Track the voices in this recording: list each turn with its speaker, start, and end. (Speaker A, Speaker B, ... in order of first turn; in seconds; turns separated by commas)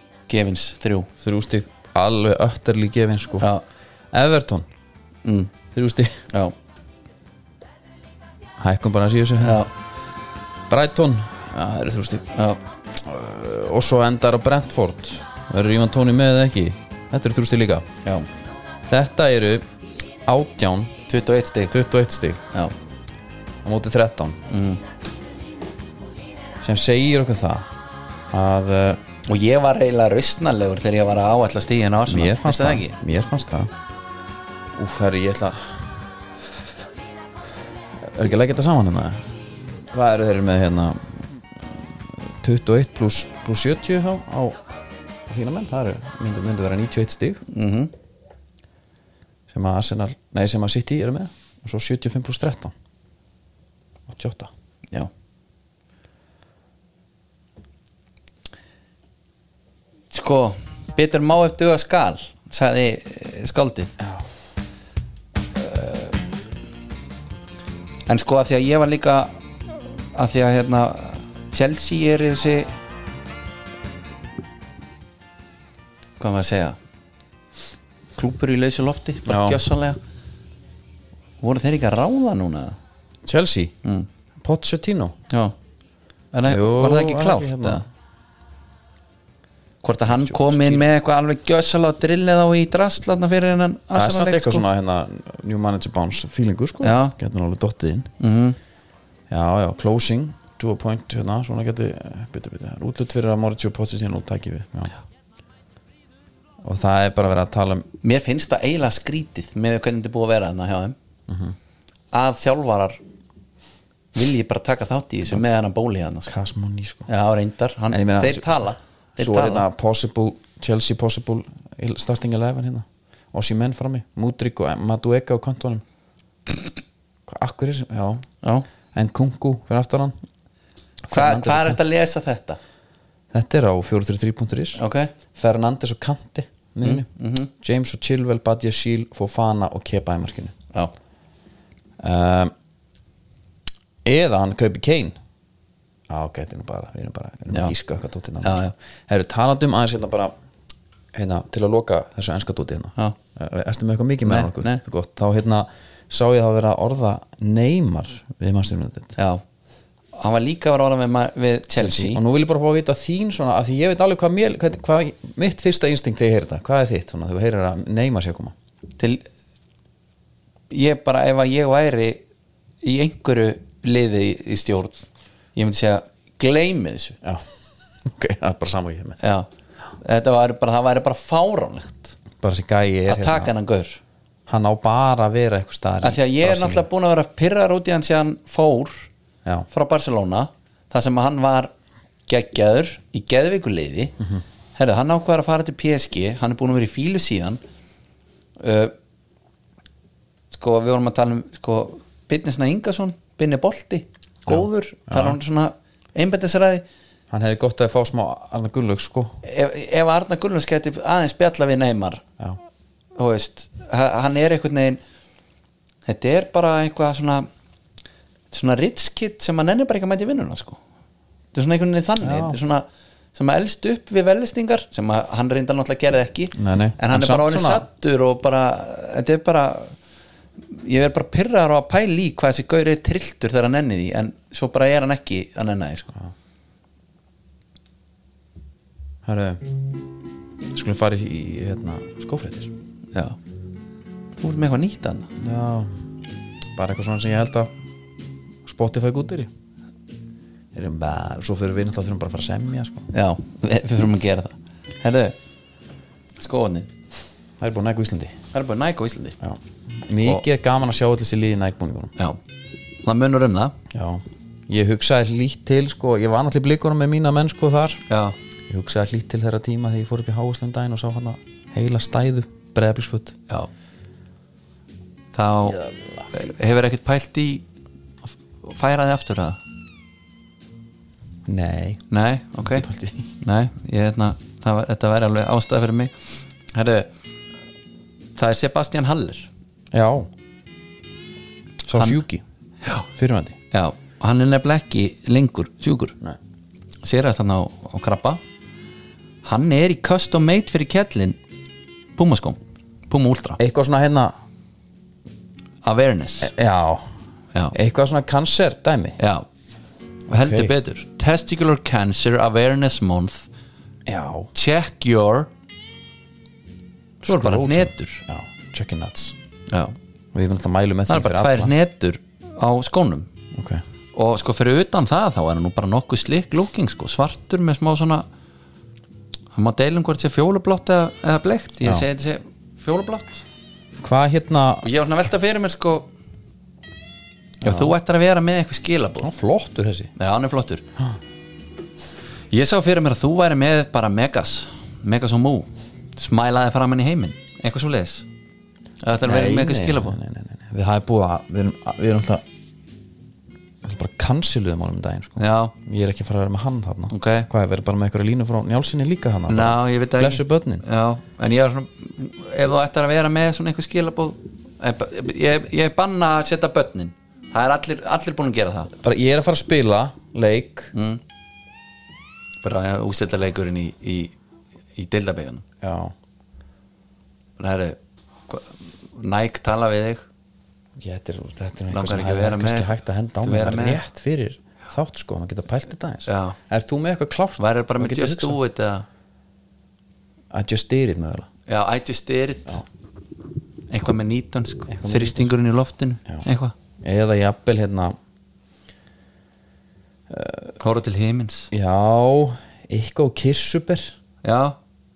Speaker A: 0.3-1.1, Speaker B: 1.2-3.5, Speaker A: 3.4-3.6, Speaker B: 4.1-4.7, Speaker A: 5.2-5.5, Speaker B: 5.7-6.2, Speaker B: 8.6-9.7, Speaker A: 9.4-9.7, Speaker B: 10.7-12.3, Speaker A: 12.3-12.6, Speaker B: 12.9-17.9, Speaker B: 18.9-19.6, Speaker B: 20.2-20.9, Speaker A: 21.1-21.7, Speaker B: 21.7-22.4, Speaker B: 23.6-24.4, Speaker A: 24.5-24.8, Speaker B: 26.6-27.7, Speaker B: 28.3-29.0, Speaker A: 29.2-32.9, Speaker B: 32.1-33.7, Speaker B: 34.7-36.0, Speaker B: 38.0-44.6, Speaker B: 45.3-47.4, Speaker A: 47.5-47.9, Speaker B: 49.5-52.7, Speaker B: 54.1-54.5, Speaker A: 60.1-63.9, Speaker B: 64.0-64.2, Speaker A: 65.6-66.1, Speaker A: 68.1-69.3, Speaker A: 70.1-72.7, Speaker A: 76.2-76.8, Speaker A: 78.2-80.0, Speaker B: 79.2-79.6, Speaker A: 81.4-82.8, Speaker B: 83.2-83.7, Speaker B: 84.4-85.1, Speaker A: 85.3-85.5, Speaker A: 86.3-87.8, Speaker B: 86.5-87.8, Speaker A: 89.8-94.6, Speaker B: 90.0-90.9, Speaker B: 93.9-98.1, Speaker A: 96.8-97.1, Speaker A: 98.2-98.6, Speaker B: 99.3-104.9, Speaker B: 106.6-107.9, Speaker A: 108.0-111.0, Speaker B: 111.3-111.5, Speaker A: 112.1-113.0, Speaker A: 114.1-116.3, Speaker B: 116.3-117.1, Speaker A: 117.1-119.6, Speaker B: 117.9-125.8, Speaker B: 127.3-128.2, Speaker B: 128.9-130.2, Speaker B: 131.1-131.8, Speaker A: 131.1-132.6, Speaker B: 133.3-134.8, Speaker A: 134.8-135.1, Speaker B: 135.3-137.1, Speaker A: 136.8-137.5, Speaker B: 137.6-140.5, Speaker B: 142.0-142.5, Speaker B: 144.0-145.2, Speaker B: 146.1-150.3, Speaker A: 148.4-148.7, Speaker B: 151.1-159.1, Speaker A: 154.2-154.8, Speaker A: 159.2-159.4, Speaker A: 160.1-162.2, Speaker B: 161.8-168.5, Speaker A: 169.0-169.2, Speaker A: 170.7-172.2, Speaker A: 172.8-175.0, Speaker A: 175.6-177.2, Speaker B: 178.0-179.2, Speaker A: 179.2-179.5, Speaker A: 180.0-182.2, Speaker B: 182.4-183.5, Speaker A: 183.1-184.0, Speaker B: 184.5-186.9, Speaker A: 186.0-189.1, Speaker A: 189.7-191.7, Speaker A: 192.3-194.2, Speaker A: 194.8-197.6, Speaker A: 198.6-198.9, Speaker A: 200.5-206.8, Speaker B: 204.5-205.4, Speaker B: 207.3-209.4, Speaker A: 209.4-212.2, Speaker A: 213.2-215.0, Speaker A: 216.1-217.5, Speaker A: 218.5-220.8, Speaker A: 221.5-230.0, Speaker B: 222.2-222.6, Speaker B: 226.5-227.8, Speaker A: 230.7-236.1, Speaker B: 239.2-239.7, Speaker B: 240.7-242.7, Speaker A: 244.4-245.3, Speaker B: 245.4-245.9, Speaker B: 246.7-247.7, Speaker B: 248.6-249.5, Speaker B: 250.7-253.1, Speaker A: 253.1-255.3, Speaker A: 256.4-256.9, Speaker B: 257.6-258.4, Speaker A: 258.5-259.4, Speaker B: 259.4-262.1, Speaker A: 263.0-263.8, Speaker B: 263.9-268.0, Speaker A: 268.1-268.4, Speaker B: 268.7-273.4, Speaker A: 275.3-277.6, Speaker B: 275.6-276.4, Speaker A: 278.6-279.6, Speaker B: 281.4-282.0, Speaker A: 282.1-282.9, Speaker B: 282.6-283.3, Speaker A: 283.4-287.1, Speaker A: 288.4-289.5, Speaker B: 289.9-290.3, Speaker B: 291.8-292.4, Speaker A: 292.8-293.1, Speaker B: 293.1-293.6, Speaker A: 293.7-296.1, Speaker A: 297.0-298.4, Speaker A: 299.4-301.4, Speaker A: 302.1-303.6, Speaker B: 303.6-304.3, Speaker A: 305.8-306.5, Speaker B: 306.4-307.1, Speaker B: 307.7-309.2, Speaker A: 309.2-309.4, Speaker A: 310.3-313.5, Speaker B: 310.3-310.7, Speaker B: 314.1-314.5, Speaker A: 314.5-315.5, Speaker B: 317.2-319.4, Speaker A: 317.2-318.2, Speaker A: 319.7-319.9, Speaker B: 320.3-321.7, Speaker A: 321.1-323.3, Speaker B: 323.5-323.8, Speaker A: 324.1-328.2, Speaker A: 329.5-333.4, Speaker B: 334.0-334.9, Speaker A: 334.8-336.1, Speaker B: 337.6-337.9, Speaker A: 337.6-339.3, Speaker B: 339.2-340.1, Speaker A: 340.1-340.8, Speaker A: 342.5-348.2, Speaker A: 349.0-350.2, Speaker B: 349.2-352.4, Speaker B: 353.8-360.8, Speaker A: 355.4-355.7, Speaker A: 357.1-357.5, Speaker A: 359.5-368.9, Speaker B: 369.0-370.9, Speaker A: 370.9-371.2, Speaker A: 372.6-374.4, Speaker A: 374.9-375.6, Speaker B: 375.8-376.1, Speaker A: 377.6-380.2, Speaker B: 381.0-388.6, Speaker A: 381.9-382.9, Speaker A: 383.4-384.0, Speaker A: 386.2-386.6, Speaker A: 387.6-389.1, Speaker B: 390.5-391.5, Speaker A: 391.7-392.8, Speaker A: 393.9-396.7, Speaker B: 394.9-395.5, Speaker B: 397.0-398.1, Speaker B: 400.3-400.8, Speaker A: 400.8-401.7, Speaker B: 401.7-404.1, Speaker A: 404.4-404.8